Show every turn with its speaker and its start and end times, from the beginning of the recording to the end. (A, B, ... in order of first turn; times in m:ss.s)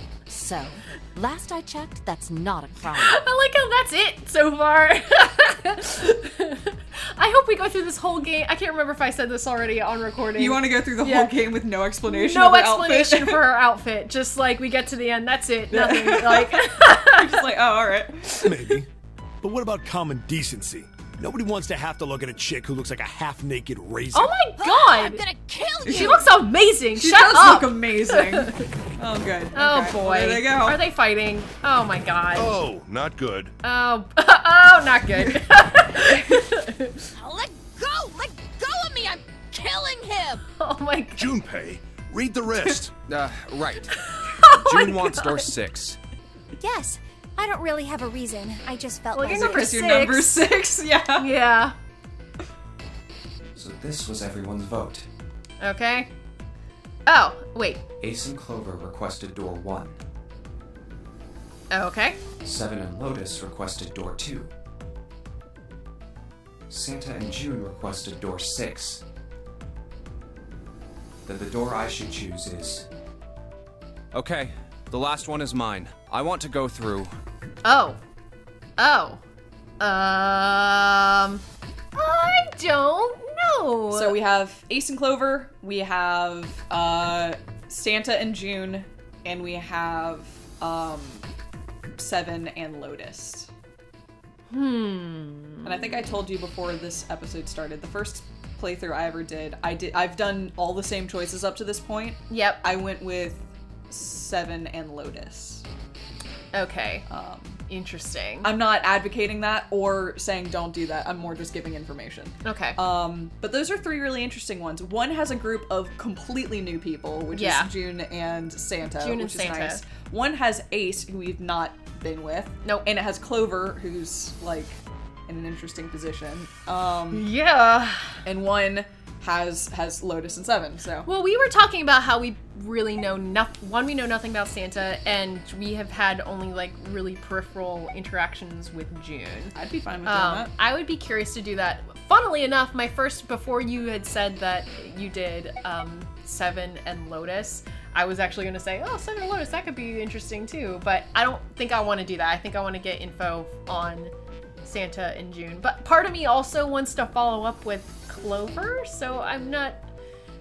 0:00.3-0:03.2 A
0:02.8-0:11.4 B
0:10.3-0:13.5 C
0:12.0-0:17.5 B
0:15.7-0:18.8 C
0:18.4-0:18.9 D
0:19.4-0:24.3 D
0:24.1-0:25.2 B
0:24.6-0:26.3 A
0:25.8-0:26.2 C
0:25.8-0:28.6 B
0:26.9-0:30.8 C
0:29.5-0:32.5 B
0:32.3-0:33.5 E
0:33.6-0:37.1 B
0:37.2-0:40.4 A
0:40.6-0:41.2 B
0:41.2-0:42.9 E
0:43.1-0:46.0 F
0:43.9-0:45.5 B
0:46.6-0:49.7 G
0:49.1-0:50.4 B
0:49.2-0:51.3 C
0:51.2-0:51.7 B
0:53.5-0:55.1 F
0:55.6-0:56.1 B
0:57.0-0:57.8 B
0:58.0-1:00.0 F
1:01.7-1:02.2 B
1:02.4-1:04.5 F
1:06.7-1:09.0 F
1:11.2-1:12.8 F
1:14.1-1:17.2 F
1:17.6-1:18.0 B
1:18.8-1:19.2 B
1:19.8-1:21.4 B
1:21.9-1:24.2 B
1:23.9-1:31.2 C
1:32.0-1:33.5 C
1:34.5-1:36.1 B
1:35.6-1:45.6 C
1:42.3-1:42.6 B
1:46.5-1:47.0 B
1:47.1-1:47.6 C
1:47.7-1:48.5 B
1:48.4-2:07.3 C
1:52.4-1:52.8 B
1:57.3-1:57.7 B
1:59.0-1:59.8 B
2:07.1-2:08.2 B
2:08.2-2:11.1 C
2:11.0-2:34.1 B
2:19.5-2:20.5 C
2:34.6-2:39.9 B